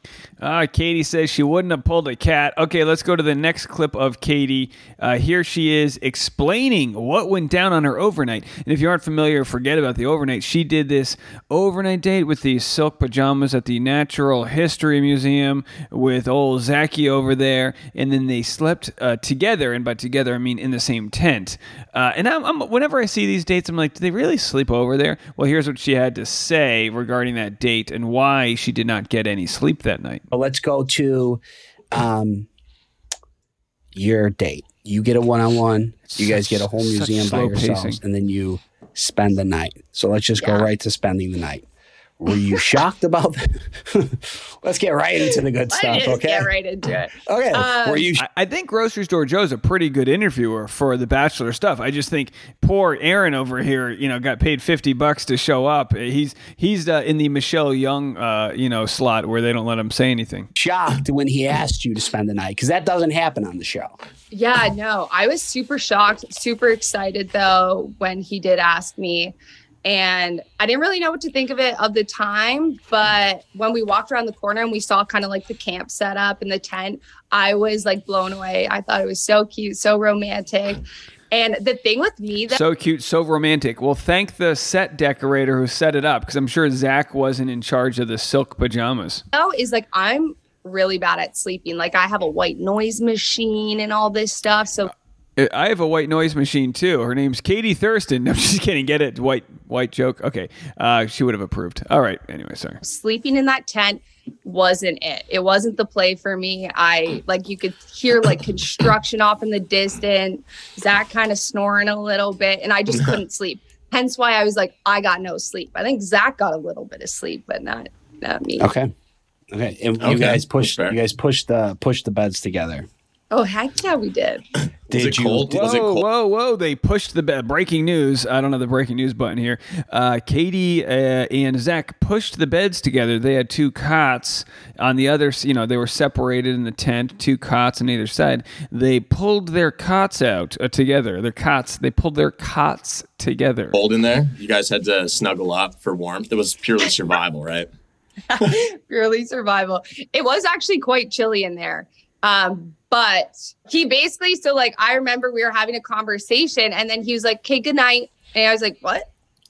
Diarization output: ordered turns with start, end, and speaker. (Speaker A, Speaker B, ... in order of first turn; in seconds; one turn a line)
Speaker A: 0.4-30.2
Speaker B: 30.3-31.4
Speaker B: 31.9-32.5
Speaker B: 33.9-41.6
Speaker A: 36.1-38.0
Speaker C: 40.4-40.7
Speaker B: 42.2-46.5
Speaker C: 45.7-48.1
Speaker B: 47.1-48.2
Speaker A: 48.2-60.5
Speaker B: 60.5-63.9
Speaker C: 64.3-69.3
Speaker C: 69.8-82.6
Speaker A: 82.5-89.2
Speaker C: 89.3-94.9
Speaker A: 95.4-102.8
Speaker C: 102.8-118.7
Speaker B: 118.6-118.9
Speaker B: 119.5-122.9
Speaker D: 120.0-121.0
Speaker C: 123.3-124.4
Speaker B: 124.9-125.8
Speaker D: 124.9-126.0
Speaker A: 125.5-143.8
Speaker D: 143.7-147.7
Speaker C: 148.4-159.1